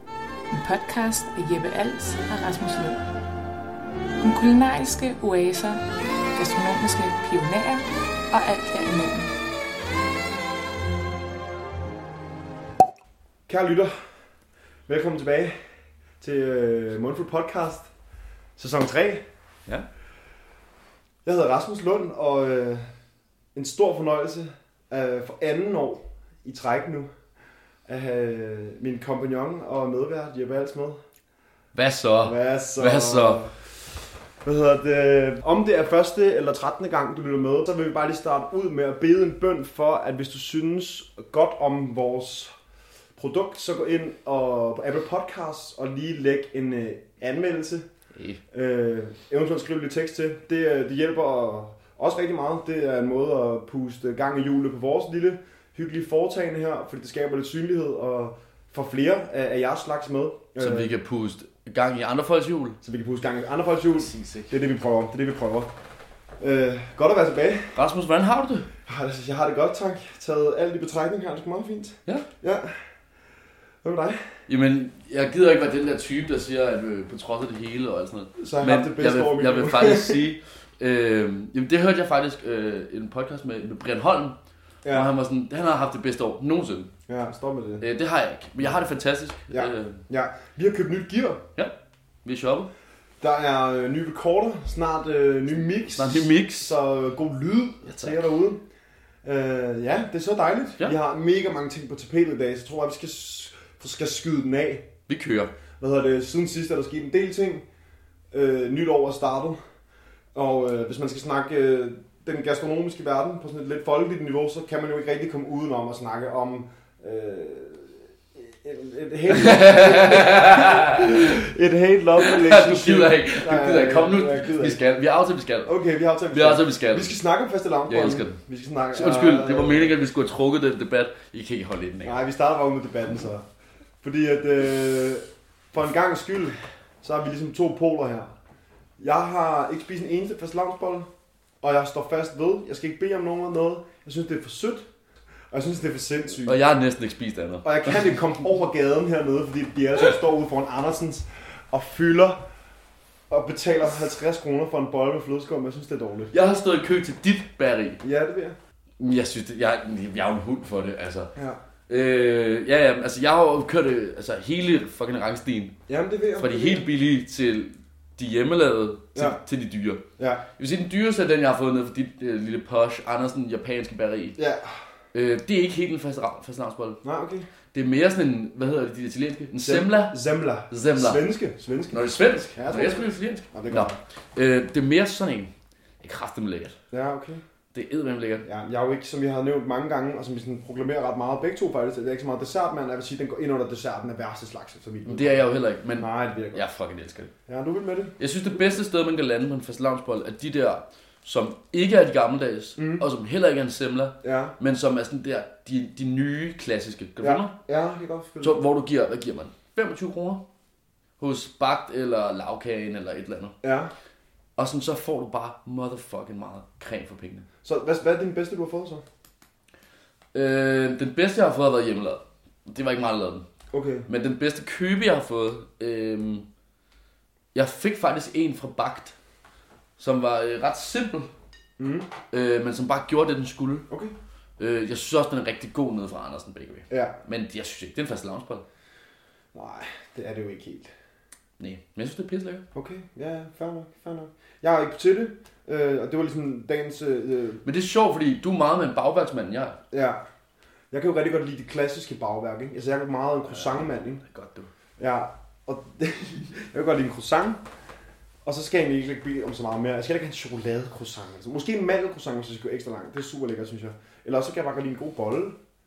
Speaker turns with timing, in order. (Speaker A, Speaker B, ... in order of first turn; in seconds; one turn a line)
Speaker A: 0.5-3.0
Speaker A: 4.2-5.8
Speaker A: 6.3-9.3
Speaker B: 13.5-13.9
Speaker B: 14.9-15.6
Speaker B: 16.2-17.9
Speaker B: 18.6-19.2
Speaker B: 21.2-22.9
Speaker B: 23.5-27.1
Speaker B: 27.9-31.0
Speaker C: 31.7-33.4
Speaker B: 32.2-33.7
Speaker B: 34.4-42.5
Speaker B: 43.1-47.9
Speaker C: 48.1-48.4
Speaker B: 48.5-60.9
Speaker C: 60.6-62.8
Speaker B: 62.8-65.7
Speaker C: 63.9-64.5
Speaker B: 66.4-67.8
Speaker C: 67.7-68.7
Speaker B: 68.8-72.8
Speaker B: 73.8-74.3
Speaker C: 74.5-84.4
Speaker B: 78.4-80.2
Speaker B: 84.8-85.1
Speaker C: 84.9-86.9
Speaker B: 87.1-87.8
Speaker C: 87.8-90.0
Speaker B: 89.5-91.4
Speaker C: 92.2-92.7
Speaker B: 93.2-98.6
Speaker C: 95.9-96.8
Speaker C: 97.8-98.2
Speaker B: 99.2-104.9
Speaker C: 105.1-105.5
Speaker B: 105.8-107.6
Speaker B: 108.3-109.6
Speaker B: 110.3-124.8
Speaker C: 119.3-121.4
Speaker C: 122.2-125.7
Speaker B: 125.7-129.9
Speaker C: 126.3-127.2
Speaker C: 127.9-128.4
Speaker C: 128.9-132.2
Speaker B: 132.0-133.4
Speaker B: 134.0-138.3
Speaker B: 139.0-141.1
Speaker B: 141.6-144.9
Speaker B: 145.5-146.6
Speaker C: 146.4-148.2
Speaker B: 147.6-152.4
Speaker B: 153.3-156.3
Speaker C: 156.3-158.0
Speaker B: 158.0-158.6
Speaker C: 159.0-161.3
Speaker C: 161.9-165.8
Speaker B: 165.9-166.9
Speaker C: 166.4-170.0
Speaker B: 169.1-169.4
Speaker B: 170.2-170.4
Speaker C: 170.6-174.4
Speaker B: 174.4-174.8
Speaker C: 175.1-177.0
Speaker B: 177.0-177.5
Speaker C: 177.7-181.2
Speaker B: 179.6-184.0
Speaker C: 181.9-186.8
Speaker B: 186.9-187.4
Speaker C: 187.7-188.4
Speaker B: 188.4-195.4
Speaker C: 195.1-197.3
Speaker B: 195.9-196.6
Speaker B: 197.5-198.2
Speaker C: 198.2-207.6
Speaker B: 202.8-203.0
Speaker B: 204.2-204.5
Speaker B: 207.2-208.6
Speaker C: 208.4-210.4
Speaker C: 211.2-213.6
Speaker B: 213.6-213.9
Speaker C: 214.6-217.4
Speaker B: 217.6-219.0
Speaker C: 220.3-223.4
Speaker B: 223.7-224.1
Speaker C: 224.1-226.4
Speaker C: 227.5-229.2
Speaker C: 230.0-231.3
Speaker B: 231.8-232.1
Speaker C: 232.3-233.9
Speaker B: 233.9-234.1
Speaker C: 234.6-238.6
Speaker B: 236.9-237.2
Speaker B: 239.5-240.9
Speaker C: 241.6-242.7
Speaker B: 242.7-247.6
Speaker C: 247.6-249.8
Speaker B: 249.9-250.2
Speaker B: 250.9-254.2
Speaker C: 253.5-254.7
Speaker B: 255.0-257.6
Speaker B: 258.4-265.6